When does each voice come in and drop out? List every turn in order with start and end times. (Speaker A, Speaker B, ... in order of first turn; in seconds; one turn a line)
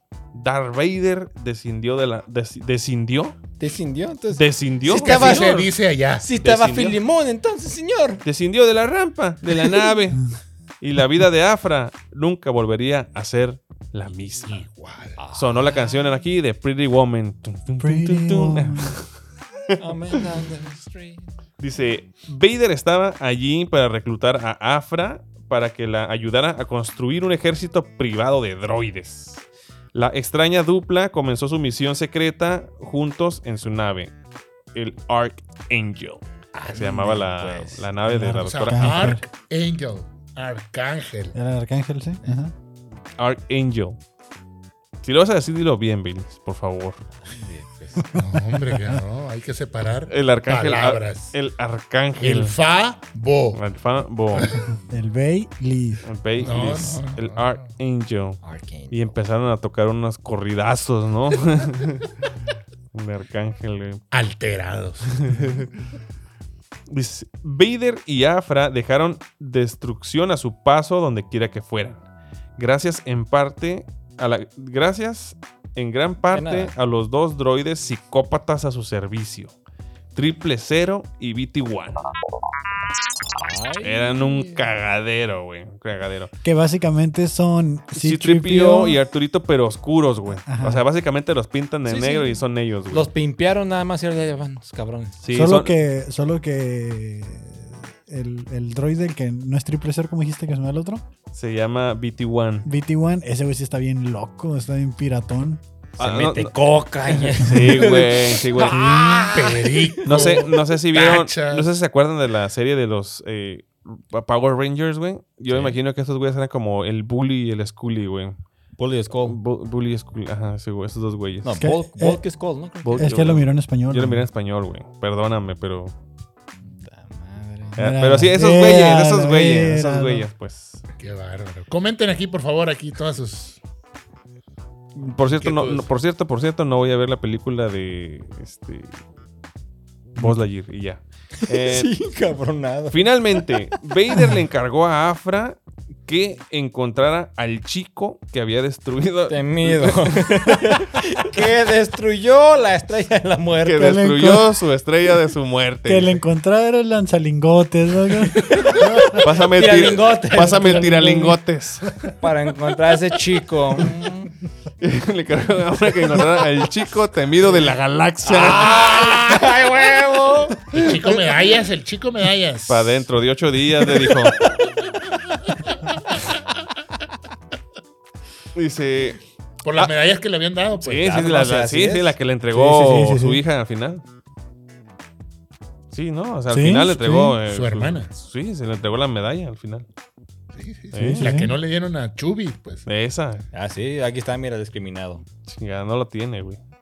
Speaker A: 0.3-3.4
Speaker B: 3.6-5.6
Speaker A: 4.3-5.7
Speaker C: 4.9-6.3
Speaker B: 6.2-8.2
Speaker A: 6.4-7.0
Speaker A: 8.2-10.2
Speaker B: 9.6-9.9
Speaker A: 10.8-14.7
Speaker C: 14.5-15.2
Speaker B: 15.2-16.0
Speaker A: 15.3-19.1
Speaker D: 17.8-18.9
Speaker B: 19.8-21.3
Speaker A: 21.6-29.4
Speaker A: 29.9-34.1
Speaker A: 34.7-39.1
Speaker B: 36.5-37.9
Speaker D: 38.1-39.2
Speaker C: 38.4-41.4
Speaker D: 41.4-42.5
Speaker A: 43.2-44.0
Speaker A: 45.0-47.0
Speaker B: 47.2-48.1
Speaker C: 48.1-51.3
Speaker D: 48.7-49.0
Speaker A: 50.1-52.6
Speaker C: 52.2-53.6
Speaker A: 53.5-54.6
Speaker C: 54.4-54.6
Speaker D: 54.9-56.0
Speaker A: 56.0-62.1
Speaker C: 56.4-57.6
Speaker B: 58.4-59.1
Speaker A: 62.9-64.0
Speaker C: 64.1-65.2
Speaker A: 65.1-65.7
Speaker A: 66.9-72.0
Speaker A: 72.6-79.5
Speaker B: 76.3-76.7
Speaker A: 80.2-82.0
Speaker B: 83.2-84.6
Speaker A: 83.8-86.3
Speaker D: 86.4-89.0
Speaker A: 87.9-93.1
Speaker D: 90.5-90.8
Speaker B: 91.9-92.4
Speaker B: 92.9-95.2
Speaker A: 95.2-95.7
Speaker D: 95.3-101.0
Speaker A: 101.3-102.7
Speaker D: 102.7-105.6
Speaker B: 106.0-110.4
Speaker A: 106.0-106.6
Speaker A: 107.1-109.2
Speaker C: 109.3-111.7
Speaker A: 110.0-118.4
Speaker B: 115.5-115.8
Speaker B: 118.8-119.4
Speaker A: 119.2-121.6
Speaker B: 121.4-123.3
Speaker D: 121.6-122.2
Speaker A: 122.8-125.9
Speaker D: 123.0-124.2
Speaker B: 126.7-127.8
Speaker D: 127.8-130.3
Speaker A: 127.8-130.8
Speaker C: 131.0-133.6
Speaker A: 135.0-139.0
Speaker C: 135.3-135.9
Speaker A: 140.2-141.9
Speaker B: 141.5-143.8
Speaker A: 142.9-150.2
Speaker D: 144.1-144.4
Speaker B: 149.3-154.0
Speaker A: 153.7-156.2
Speaker D: 153.8-154.5
Speaker D: 155.9-159.2
Speaker B: 158.5-161.1
Speaker A: 159.1-161.9
Speaker D: 160.4-162.1
Speaker B: 162.2-164.3
Speaker A: 164.8-169.2
Speaker B: 168.2-170.7
Speaker C: 170.7-173.0
Speaker A: 170.8-171.1
Speaker A: 172.7-174.4
Speaker A: 178.6-179.2
Speaker C: 179.6-181.1
Speaker A: 180.8-184.0
Speaker B: 181.0-182.2
Speaker D: 182.5-183.4
Speaker A: 185.9-189.9
Speaker D: 186.5-187.4
Speaker C: 187.5-188.1
Speaker C: 190.5-192.9
Speaker A: 190.9-191.4
Speaker D: 191.0-191.5
Speaker A: 192.9-193.4
Speaker B: 193.5-195.2
Speaker A: 195.5-196.6